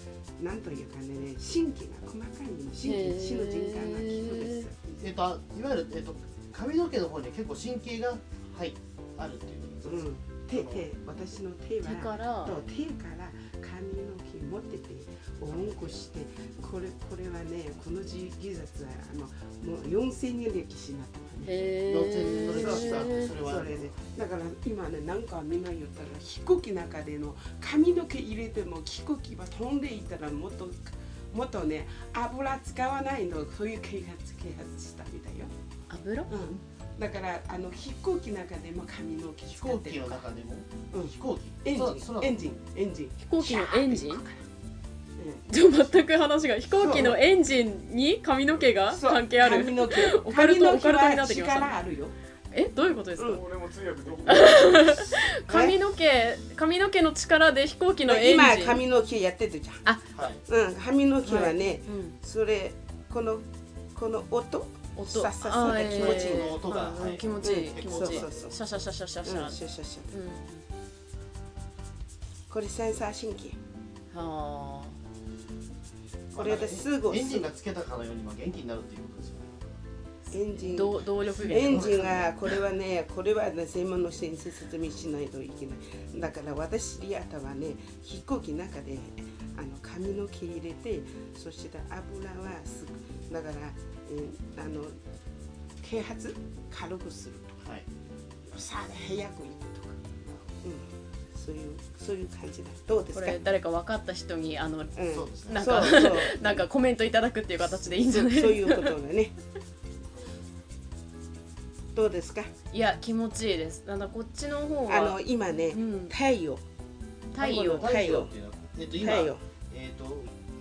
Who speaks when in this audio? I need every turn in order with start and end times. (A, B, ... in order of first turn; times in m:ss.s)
0:00.4-0:04.7 A
0:02.8-0:04.7 B
0:04.8-0:10.8 C
0:09.8-0:21.6 A
0:11.8-0:12.6 B
0:15.5-0:16.0 C
0:21.4-0:23.3 B
0:21.8-0:24.1 C
0:22.5-0:35.5 A
0:35.9-0:36.3 B
0:36.3-0:40.2 A
0:39.6-0:42.5 C
0:40.9-0:44.4 A
0:43.2-0:44.2 B
0:45.2-0:45.4 A
0:45.5-0:51.8 B
0:46.8-0:47.2 A
0:48.9-0:52.1 A
0:52.5-0:53.4 B
0:53.2-0:55.2 D
0:54.2-0:58.8 B
0:55.5-0:55.8 A
0:58.0-0:59.8 A
0:59.8-1:00.1 B
1:00.1-1:00.4 C
1:00.4-1:06.6 A
1:01.2-1:02.1 B
1:04.9-1:10.6 B
1:05.6-1:08.4 C
1:07.4-1:08.6 A
1:09.2-1:10.1 A
1:12.5-1:13.6 A
1:14.1-1:15.0 B
1:16.3-1:17.5 A
1:16.3-1:19.8 C
1:20.3-1:35.0 A
1:20.3-1:22.2 B
1:21.3-1:22.3 C
1:35.8-1:37.6 A
1:38.4-1:40.0 A
1:40.2-1:40.6 C
1:40.6-1:43.4 A
1:43.1-1:49.0 B
1:44.9-1:46.6 A
1:45.1-1:46.5 C
1:47.6-1:49.3 A
1:51.9-1:52.5 A
1:52.7-1:56.1 B
1:54.9-1:56.6 A
1:57.3-1:57.9 B
1:57.3-1:58.3 A
1:57.7-2:00.3 C
1:58.9-1:59.4 A